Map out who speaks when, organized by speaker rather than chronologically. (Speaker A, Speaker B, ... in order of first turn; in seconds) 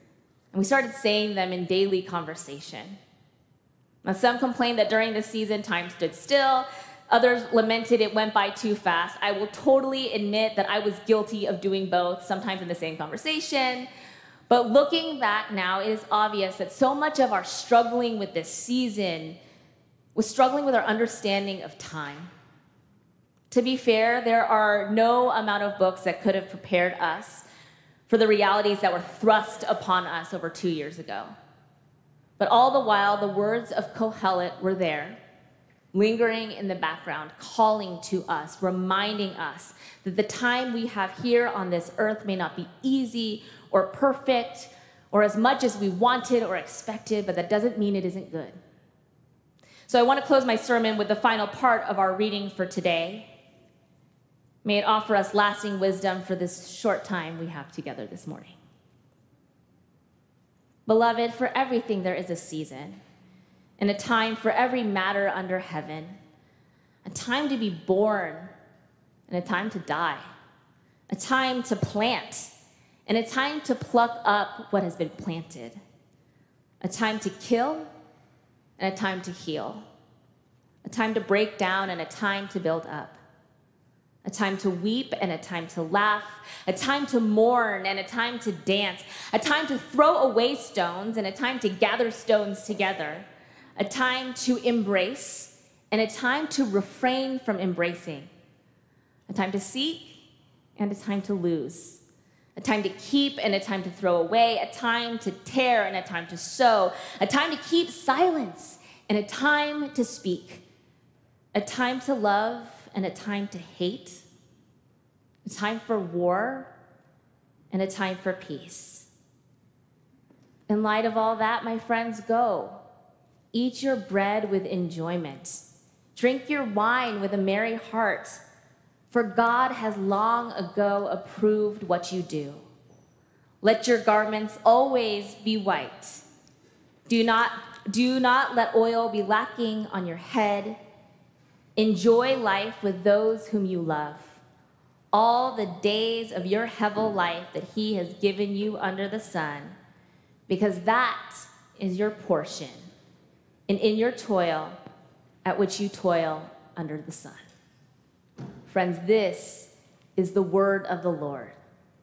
Speaker A: 0.5-3.0, 4.0-13.9, 14.5-19.4, 20.1-22.3, 23.5-27.4, 28.1-31.3, 32.4-35.2, 35.9-48.5, 49.9-53.3, 54.6-58.6, 60.9-63.0, 63.8-66.2, 67.0-68.5, 69.3-70.3, 71.1-72.5, 73.1-75.8, 76.8-77.9, 78.8-79.8, 80.8-83.2, 84.2-93.2, 93.8-98.3, 99.3-100.2, 100.8-102.0, 102.5-110.6, 111.5-114.2, 115.4-116.7, 117.7-119.1, 120.7-122.8, 123.5-125.6, 126.1-128.4, 129.1-132.6, 133.6-136.2, 137.1-140.8, 141.8-144.4, 145.1-149.8, 150.5-152.8, 153.7-154.8, 155.4-157.4, 158.7-161.6